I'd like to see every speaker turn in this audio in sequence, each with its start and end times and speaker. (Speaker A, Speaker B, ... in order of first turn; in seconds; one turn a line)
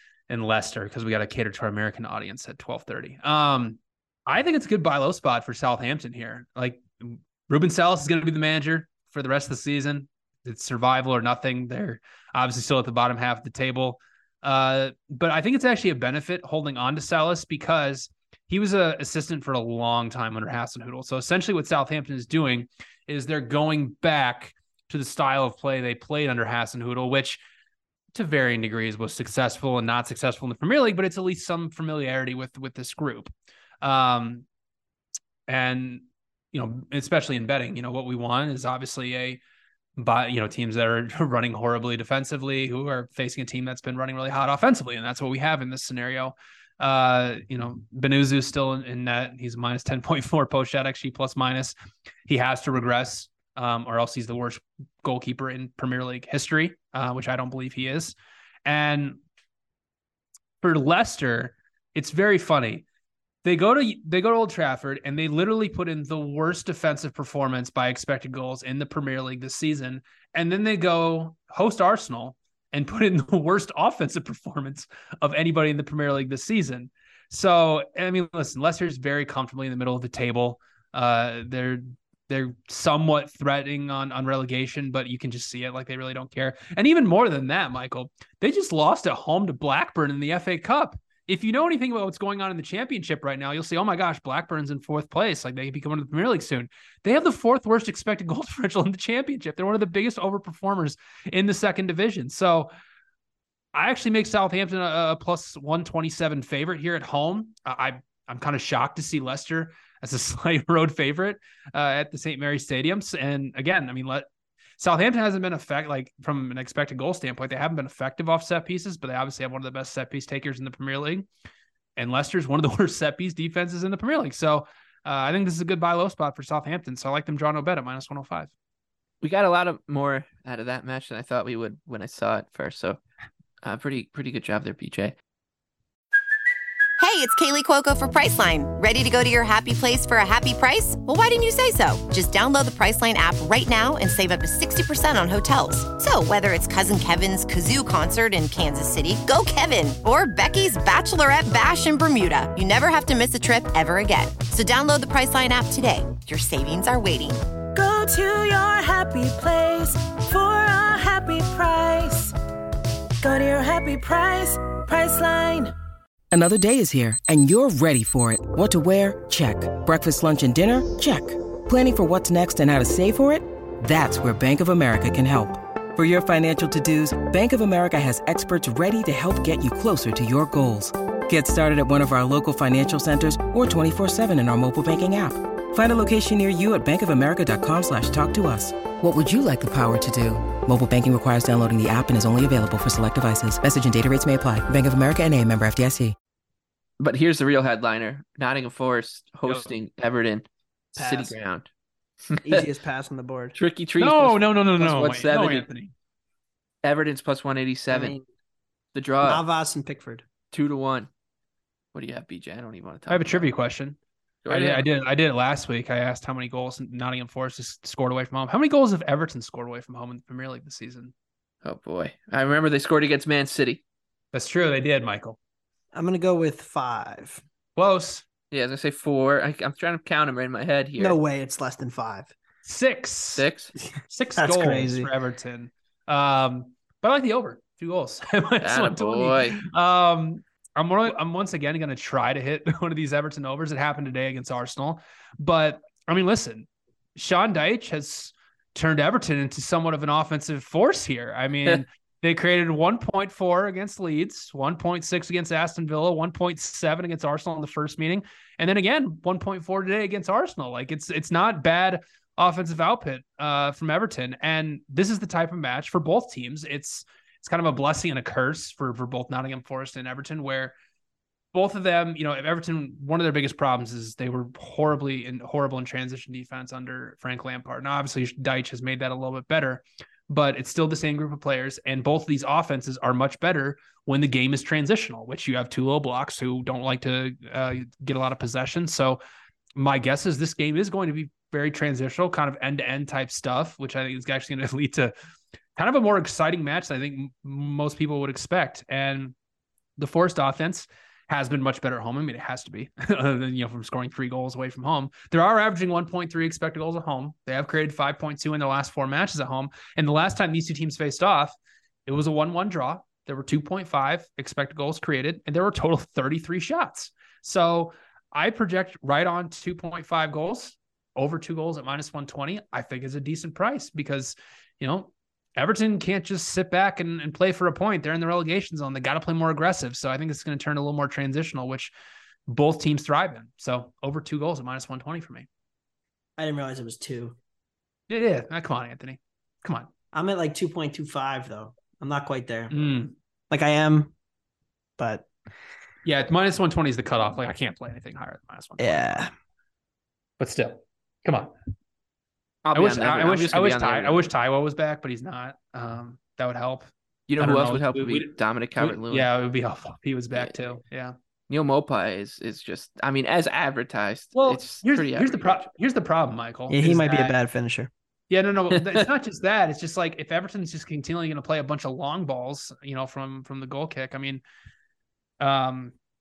Speaker A: 0.3-27.4
Speaker A: 28.1-33.3
Speaker A: 33.8-34.4
Speaker A: 35.5-39.4
Speaker A: 40.0-51.7
Speaker A: 52.3-59.2
Speaker A: 60.6-62.8
Speaker A: 63.4-102.7
Speaker A: 103.7-114.3
Speaker A: 114.8-121.2
Speaker A: 122.0-128.5
Speaker B: 129.2-133.0
Speaker B: 133.6-135.1
Speaker C: 137.0-157.4
Speaker D: 157.7-162.3
Speaker D: 163.2-165.7
Speaker E: 166.3-196.1
Speaker B: 197.0-200.4
Speaker B: 200.9-201.7
Speaker F: 201.0-201.3
Speaker B: 202.3-202.6
Speaker F: 202.4-203.6
Speaker B: 203.5-205.7
Speaker A: 204.0-205.9
Speaker B: 206.8-208.2
Speaker F: 207.9-208.2
Speaker B: 208.9-209.4
Speaker F: 209.2-210.2
Speaker B: 210.5-211.1
Speaker B: 211.9-213.5
Speaker A: 213.1-221.1
Speaker B: 214.4-214.8
Speaker B: 221.6-223.8
Speaker A: 224.3-225.4
Speaker F: 225.9-227.4
Speaker A: 227.8-228.2
Speaker B: 228.5-231.2
Speaker F: 231.0-232.3
Speaker A: 232.6-233.4
Speaker B: 233.3-233.7
Speaker A: 234.1-270.7
Speaker F: 234.4-235.1
Speaker B: 238.6-239.6
Speaker A: 271.5-289.2
Speaker A: 289.8-295.1
Speaker A: 295.8-299.3
Speaker A: 300.0-311.5
Speaker A: 312.1-331.9
Speaker A: 332.5-335.5
Speaker F: 336.4-337.4
Speaker A: 338.1-339.9
Speaker F: 340.1-342.8
Speaker A: 342.7-343.1
Speaker F: 343.5-344.1
Speaker F: 345.0-345.3
Speaker A: 346.0-349.0
Speaker F: 348.8-349.3
Speaker A: 350.4-351.5
Speaker B: 352.6-354.2
Speaker A: 352.7-361.1
Speaker B: 357.3-359.3
Speaker B: 361.5-365.7
Speaker A: 364.3-367.3
Speaker F: 366.7-367.9
Speaker A: 368.3-374.4
Speaker B: 368.7-369.0
Speaker A: 375.4-375.9